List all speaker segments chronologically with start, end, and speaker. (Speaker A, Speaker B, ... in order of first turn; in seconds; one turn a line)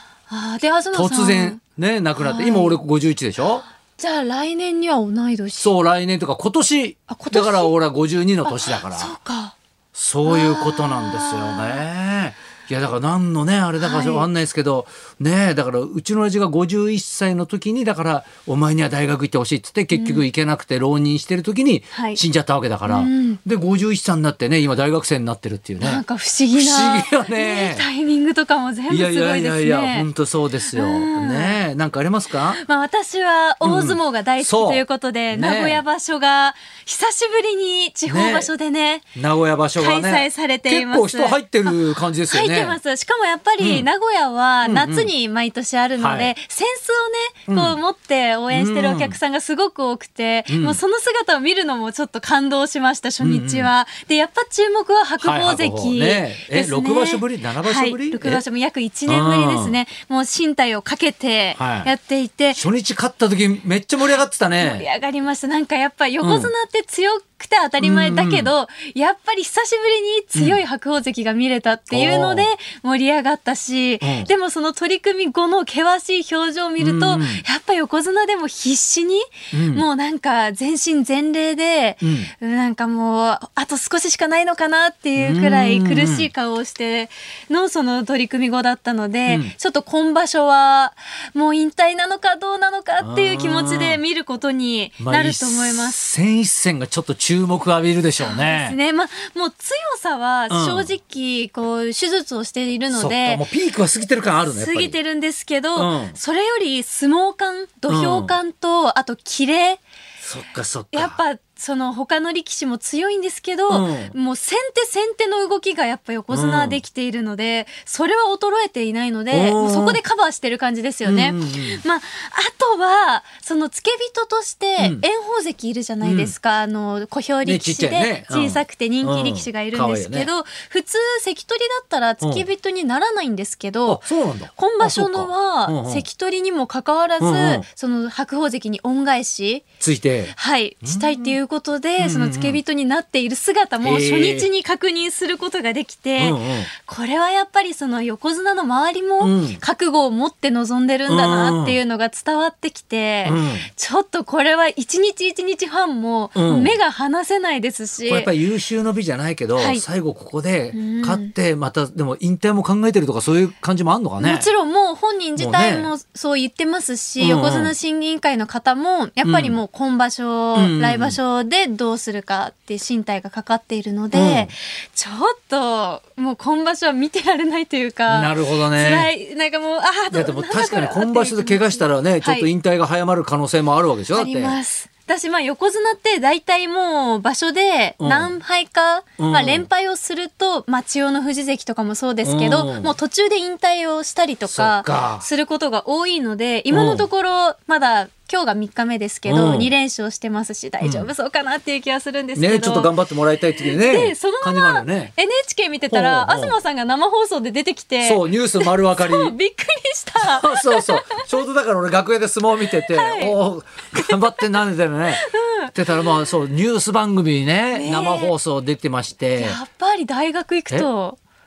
Speaker A: 0.3-1.6
Speaker B: 0.9-3.6
Speaker A: 2.2-2.8
Speaker A: 4.0-5.7
Speaker B: 5.5-9.1
Speaker A: 7.1-7.7
Speaker A: 8.4-9.5
Speaker B: 9.9-27.9
Speaker A: 10.2-11.8
Speaker A: 13.8-14.3
Speaker A: 19.9-20.2
Speaker A: 21.9-22.2
Speaker A: 22.9-23.4
Speaker A: 25.8-30.1
Speaker B: 28.9-32.6
Speaker A: 30.6-31.6
Speaker A: 32.5-39.1
Speaker B: 33.6-35.8
Speaker B: 38.1-38.5
Speaker B: 39.1-42.8
Speaker A: 39.8-62.6
Speaker B: 43.6-43.9
Speaker B: 44.6-45.1
Speaker B: 46.0-46.3
Speaker B: 47.5-47.8
Speaker B: 48.5-49.2
Speaker B: 50.5-50.8
Speaker B: 53.2-53.7
Speaker B: 55.2-58.4
Speaker B: 59.1-59.8
Speaker B: 61.5-61.9
Speaker B: 62.5-64.8
Speaker A: 64.6-96.0
Speaker B: 66.2-66.5
Speaker B: 67.8-68.5
Speaker B: 71.9-72.5
Speaker B: 74.0-74.3
Speaker B: 76.8-77.4
Speaker B: 79.5-79.8
Speaker B: 82.0-82.3
Speaker B: 85.2-86.3
Speaker B: 89.3-89.5
Speaker B: 93.0-94.0
Speaker B: 95.0-98.8
Speaker A: 98.2-103.5
Speaker B: 100.5-100.9
Speaker B: 102.9-105.0
Speaker A: 104.5-109.8
Speaker B: 105.7-106.2
Speaker B: 107.9-108.3
Speaker B: 110.2-111.2
Speaker A: 110.9-139.6
Speaker B: 113.7-114.1
Speaker B: 116.3-116.8
Speaker B: 119.3-120.0
Speaker B: 121.0-121.8
Speaker B: 124.8-125.0
Speaker B: 126.0-126.3
Speaker B: 127.4-130.3
Speaker B: 132.2-132.5
Speaker B: 133.8-136.0
Speaker B: 137.2-137.6
Speaker B: 139.8-141.3
Speaker A: 140.3-158.3
Speaker B: 142.0-142.6
Speaker B: 143.8-144.5
Speaker B: 146.2-146.7
Speaker B: 149.2-149.6
Speaker B: 151.1-151.8
Speaker B: 153.2-153.7
Speaker B: 156.3-156.8
Speaker B: 158.0-164.5
Speaker A: 159.6-159.8
Speaker A: 160.7-161.3
Speaker A: 164.2-182.5
Speaker B: 165.3-165.9
Speaker B: 167.2-167.7
Speaker B: 169.2-169.6
Speaker B: 170.5-171.2
Speaker B: 174.1-174.5
Speaker B: 178.1-179.1
Speaker B: 180.1-184.6
Speaker A: 184.1-202.9
Speaker B: 188.0-188.3
Speaker B: 189.2-189.7
Speaker B: 192.2-192.9
Speaker B: 194.5-195.2
Speaker B: 196.7-197.1
Speaker B: 199.2-199.7
Speaker B: 200.8-201.1
Speaker B: 202.3-205.1
Speaker A: 203.5-211.2
Speaker B: 205.9-206.6
Speaker B: 208.0-209.3
Speaker B: 210.2-219.6
Speaker A: 212.9-213.4
Speaker A: 213.9-214.4
Speaker A: 215.1-216.1
Speaker A: 217.7-218.3
Speaker A: 219.4-221.2